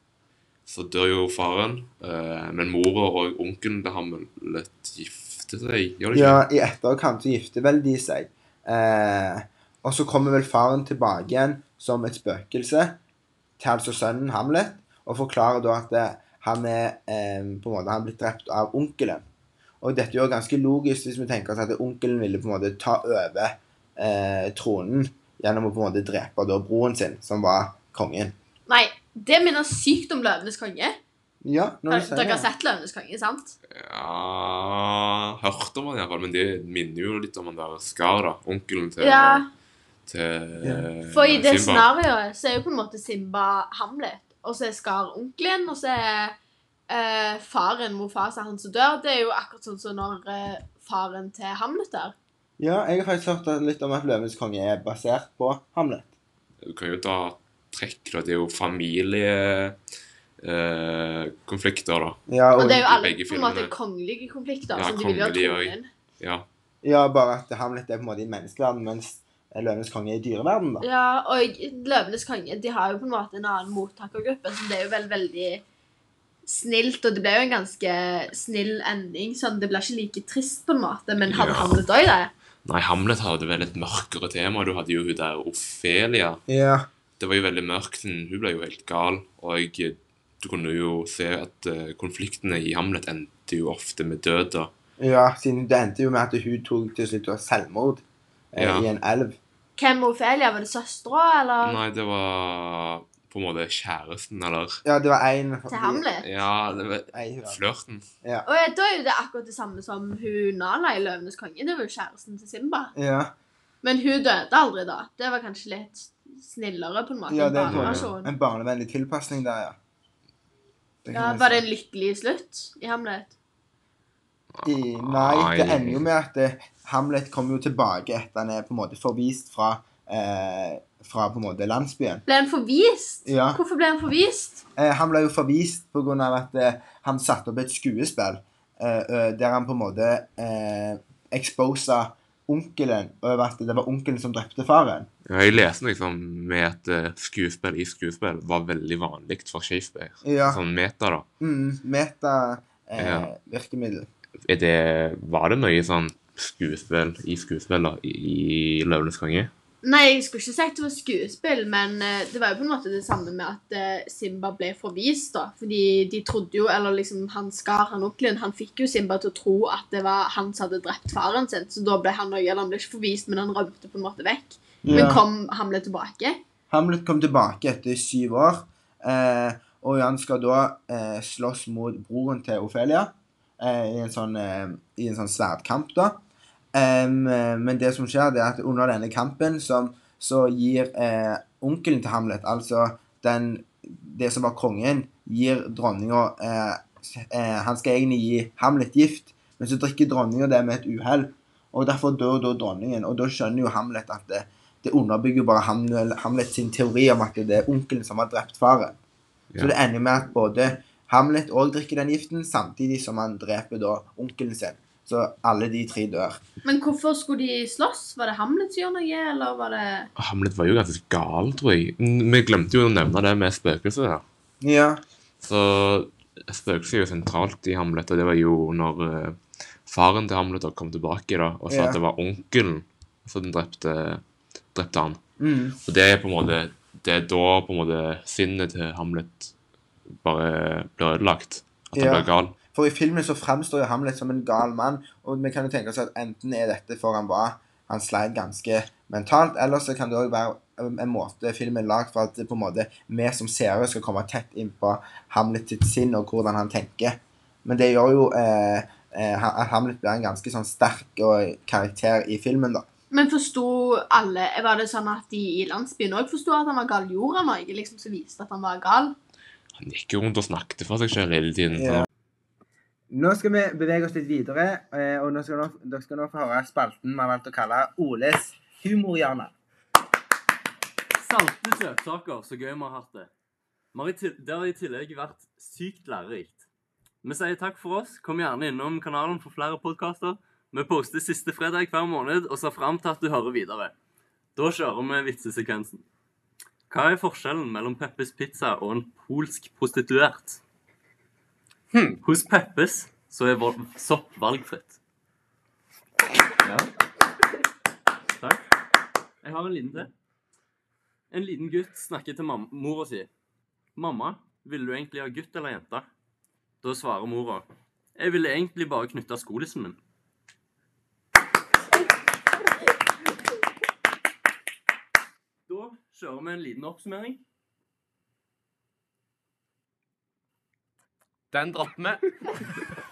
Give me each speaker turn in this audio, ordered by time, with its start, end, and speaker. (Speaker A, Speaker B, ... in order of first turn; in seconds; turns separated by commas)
Speaker A: 0.7-6.4, Speaker B: 6.1-13.0, Speaker B: 13.6-19.2, Speaker B: 19.8-28.4, Speaker C: 28.7-31.0, Speaker B: 31.4-32.5, Speaker C: 31.9-33.6, Speaker A: 33.7-39.4, Speaker C: 39.0-39.5, Speaker A: 40.1-41.9, Speaker B: 40.6-40.9, Speaker C: 41.1-46.4, Speaker C: 46.9-52.1, Speaker B: 52.6-56.1, Speaker A: 56.6-59.8, Speaker A: 60.4-62.2, Speaker B: 62.3-62.8, Speaker C: 62.6-65.9, Speaker A: 62.8-63.7, Speaker A: 64.7-66.5, Speaker B: 66.8-70.9, Speaker C: 70.8-75.6, Speaker C: 76.5-82.3, Speaker A: 81.3-81.8, Speaker A: 82.7-86.4, Speaker B: 86.5-86.9, Speaker A: 87.2-94.7, Speaker B: 95.0-99.4, Speaker A: 98.6-98.9, Speaker C: 99.8-101.8, Speaker A: 101.6-104.8, Speaker B: 104.8-106.1, Speaker C: 105.7-106.3, Speaker A: 106.2-108.1, Speaker B: 107.1-107.6, Speaker C: 108.5-112.9, Speaker B: 113.0-113.3, Speaker C: 113.8-118.3, Speaker B: 117.3-119.8, Speaker A: 117.7-118.1, Speaker B: 121.0-121.7, Speaker C: 121.1-123.3, Speaker A: 124.5-126.1, Speaker B: 124.6-132.2, Speaker C: 132.2-134.6, Speaker B: 133.3-133.6, Speaker B: 134.8-145.1, Speaker A: 145.3-151.3, Speaker B: 150.2-150.6, Speaker B: 151.4-154.1, Speaker A: 153.0-153.3, Speaker A: 154.4-159.5, Speaker C: 159.8-176.4, Speaker B: 174.8-175.2, Speaker B: 176.7-186.2, Speaker B: 186.8-209.0, Speaker B: 209.6-216.4, Speaker C: 216.6-220.1, Speaker A: 220.2-224.2, Speaker B: 224.6-225.0, Speaker A: 225.4-234.2, Speaker B: 231.7-232.0, Speaker A: 234.7-235.2, Speaker B: 235.4-235.8, Speaker A: 235.8-239.5, Speaker A: 240.2-242.6, Speaker B: 241.9-262.9, Speaker C: 263.1-269.2, Speaker A: 269.8-272.1, Speaker B: 271.7-272.1, Speaker B: 273.1-279.5, Speaker D: 281.2-283.3, Speaker D: 283.9-286.6, Speaker D: 287.2-293.9, Speaker D: 294.6-296.0, Speaker D: 296.9-300.6, Speaker A: 301.9-302.2, Speaker D: 302.2-305.0, Speaker D: 306.6-306.9, Speaker D: 308.4-308.6, Speaker D: 309.4-310.1, Speaker D: 311.3-313.3, Speaker D: 314.0-316.1, Speaker D: 316.8-320.0, Speaker D: 325.7-327.4, Speaker A: 331.5-332.2